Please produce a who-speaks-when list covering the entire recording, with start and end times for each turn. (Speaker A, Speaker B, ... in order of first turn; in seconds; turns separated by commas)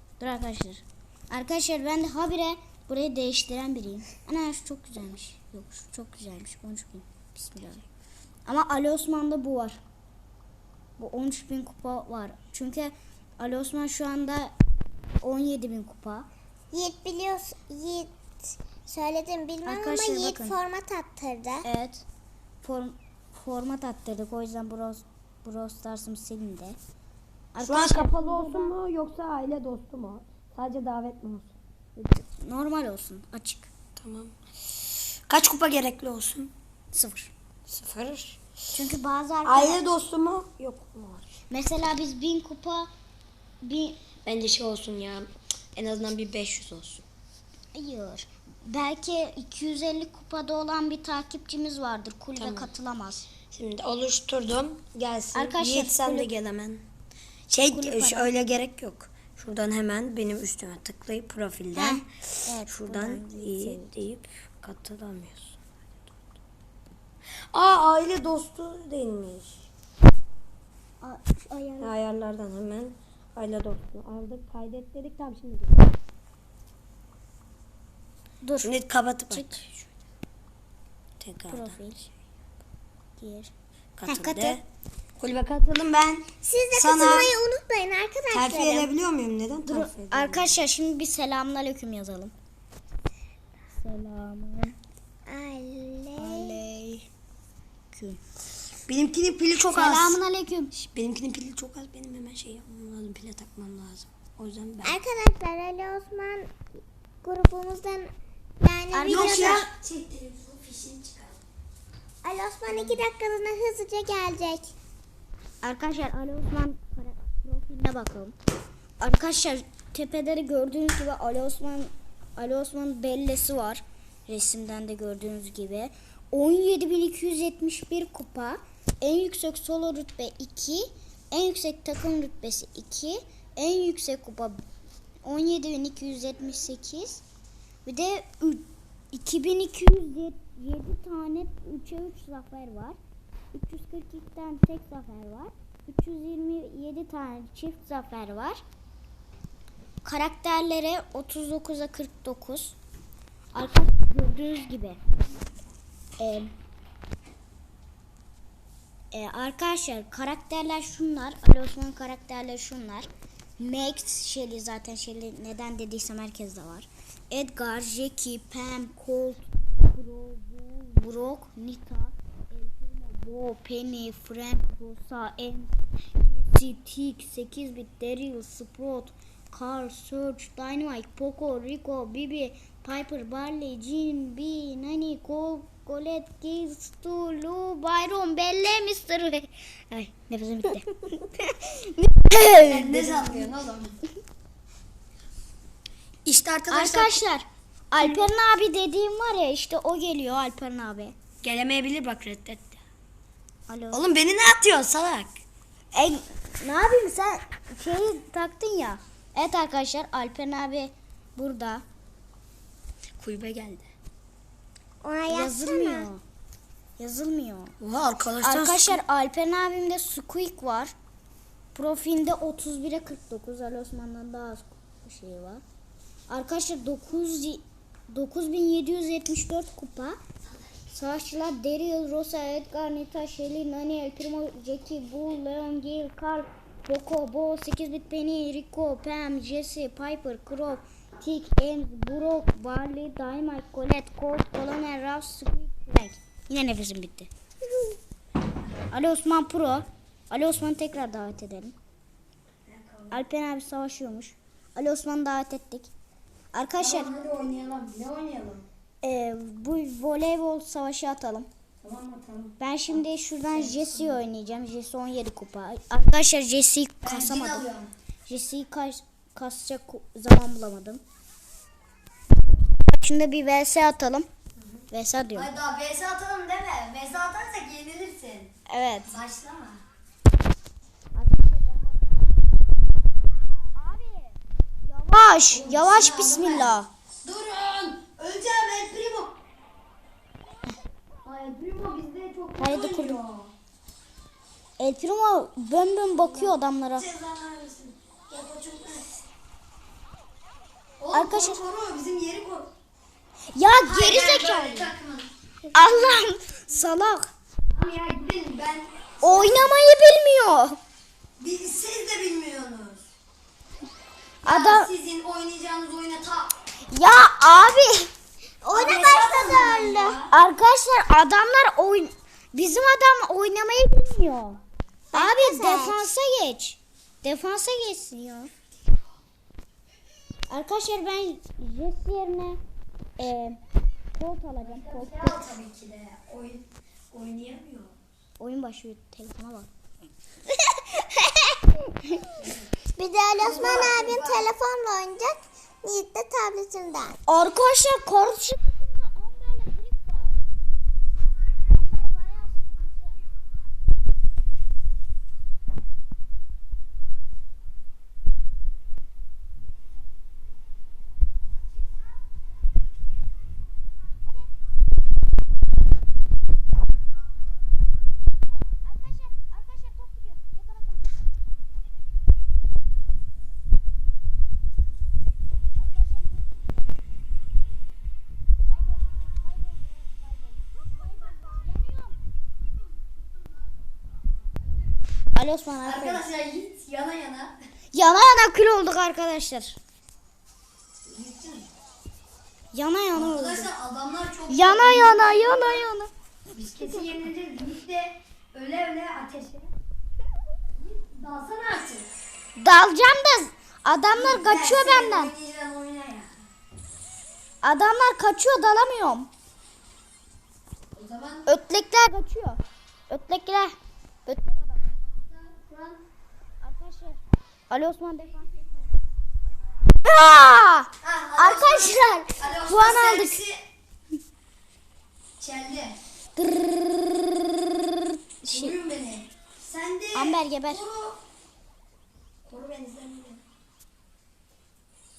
Speaker A: 0.2-7.8, Speaker A: 8.4-9.8, Speaker A: 11.0-14.5, Speaker A: 15.2-16.2, Speaker B: 16.7-21.6, Speaker A: 19.6-20.6, Speaker A: 21.6-22.0, Speaker A: 22.6-26.8, Speaker A: 27.5-28.8, Speaker C: 27.6-31.5, Speaker A: 32.0-33.7, Speaker C: 34.0-34.3, Speaker C: 35.3-36.5, Speaker A: 36.9-37.3, Speaker C: 37.7-38.4, Speaker A: 38.7-39.8, Speaker C: 39.4-41.2, Speaker A: 41.5-42.9, Speaker A: 43.6-44.0, Speaker C: 44.2-47.0, Speaker A: 47.7-53.3, Speaker C: 52.4-52.7, Speaker C: 53.5-56.8, Speaker A: 55.3-56.3, Speaker C: 57.5-62.1, Speaker A: 57.6-58.3, Speaker A: 61.7-63.9, Speaker C: 62.7-65.6, Speaker C: 67.5-69.6, Speaker A: 71.0-71.9, Speaker C: 71.8-75.8, Speaker A: 78.4-78.8, Speaker C: 78.6-79.7, Speaker A: 79.3-79.6, Speaker C: 81.2-81.8, Speaker A: 81.5-82.1, Speaker A: 83.2-83.5, Speaker C: 84.0-84.6, Speaker A: 84.1-84.6, Speaker C: 85.2-87.3, Speaker B: 86.4-88.9, Speaker C: 88.3-90.6, Speaker A: 89.7-92.3, Speaker A: 93.8-94.8, Speaker B: 95.3-96.6, Speaker A: 96.2-97.1, Speaker A: 97.9-98.2, Speaker C: 98.9-100.2, Speaker A: 99.7-100.7, Speaker C: 100.7-105.0, Speaker B: 104.8-106.6, Speaker B: 107.2-109.6, Speaker A: 108.9-109.7, Speaker C: 109.1-111.4, Speaker B: 112.2-114.7, Speaker C: 112.7-113.0, Speaker A: 115.6-118.3, Speaker A: 119.0-134.6, Speaker A: 135.2-137.2, Speaker A: 137.8-143.0, Speaker A: 143.5-148.6, Speaker A: 150.0-152.8, Speaker A: 153.5-155.0, Speaker A: 156.2-156.5, Speaker A: 159.1-193.5, Speaker C: 192.6-194.0, Speaker C: 196.2-197.2, Speaker A: 196.7-201.1, Speaker C: 198.0-198.3, Speaker C: 201.4-202.8, Speaker A: 203.7-204.0, Speaker C: 203.9-205.3, Speaker A: 205.9-211.8, Speaker C: 213.2-213.9, Speaker B: 215.0-216.1, Speaker A: 215.3-216.2, Speaker A: 217.0-217.8, Speaker C: 217.8-219.0, Speaker A: 218.4-220.9, Speaker A: 221.7-225.6, Speaker A: 226.3-230.2, Speaker A: 230.9-247.3, Speaker A: 248.9-251.8, Speaker C: 252.7-253.2, Speaker A: 253.1-255.9, Speaker A: 256.5-257.1, Speaker C: 256.8-258.6, Speaker A: 259.0-261.5, Speaker C: 261.8-263.0, Speaker A: 262.6-267.6, Speaker C: 263.5-264.2, Speaker C: 267.0-267.9, Speaker A: 268.3-271.0, Speaker A: 272.9-274.3, Speaker C: 274.6-278.5, Speaker A: 274.9-275.5, Speaker A: 278.7-279.1, Speaker C: 279.1-279.8, Speaker A: 281.1-282.3, Speaker A: 283.6-286.9, Speaker C: 285.5-289.4, Speaker C: 291.2-293.5, Speaker A: 292.6-293.2, Speaker A: 294.8-297.1, Speaker C: 296.2-299.1, Speaker C: 301.0-302.7, Speaker A: 301.1-301.6, Speaker A: 303.6-304.9, Speaker C: 303.8-305.3, Speaker A: 305.7-307.3, Speaker C: 307.7-309.7, Speaker A: 309.2-310.8, Speaker C: 311.4-313.0, Speaker A: 314.4-314.9, Speaker C: 314.4-316.5, Speaker A: 316.9-318.1, Speaker B: 318.6-320.2, Speaker C: 318.7-320.3, Speaker A: 320.3-324.6, Speaker B: 325.1-326.0, Speaker A: 325.1-328.5, Speaker A: 330.5-332.6, Speaker A: 333.2-333.6, Speaker A: 334.1-335.4, Speaker C: 334.6-337.9, Speaker A: 338.4-339.7, Speaker C: 342.4-342.7, Speaker B: 342.9-347.2, Speaker C: 343.4-344.4, Speaker A: 347.3-350.4, Speaker A: 351.7-353.1, Speaker A: 368.5-371.2, Speaker A: 375.8-376.7, Speaker A: 378.7-382.2, Speaker A: 385.3-386.2, Speaker C: 385.9-387.6, Speaker A: 387.9-389.8, Speaker C: 391.1-391.7, Speaker A: 392.7-393.7, Speaker C: 393.1-395.8, Speaker A: 394.5-396.1, Speaker C: 396.5-399.7, Speaker C: 400.7-402.1, Speaker A: 402.6-405.3, Speaker C: 404.1-406.3, Speaker A: 407.6-409.3, Speaker C: 410.9-411.5, Speaker A: 411.4-413.7, Speaker A: 414.2-414.9, Speaker C: 415.1-416.0, Speaker A: 416.6-418.7, Speaker A: 420.0-423.4, Speaker C: 421.0-423.6, Speaker C: 425.4-426.0, Speaker A: 426.4-427.1, Speaker A: 428.4-428.8, Speaker C: 428.5-431.2, Speaker A: 430.1-430.8, Speaker C: 432.4-433.4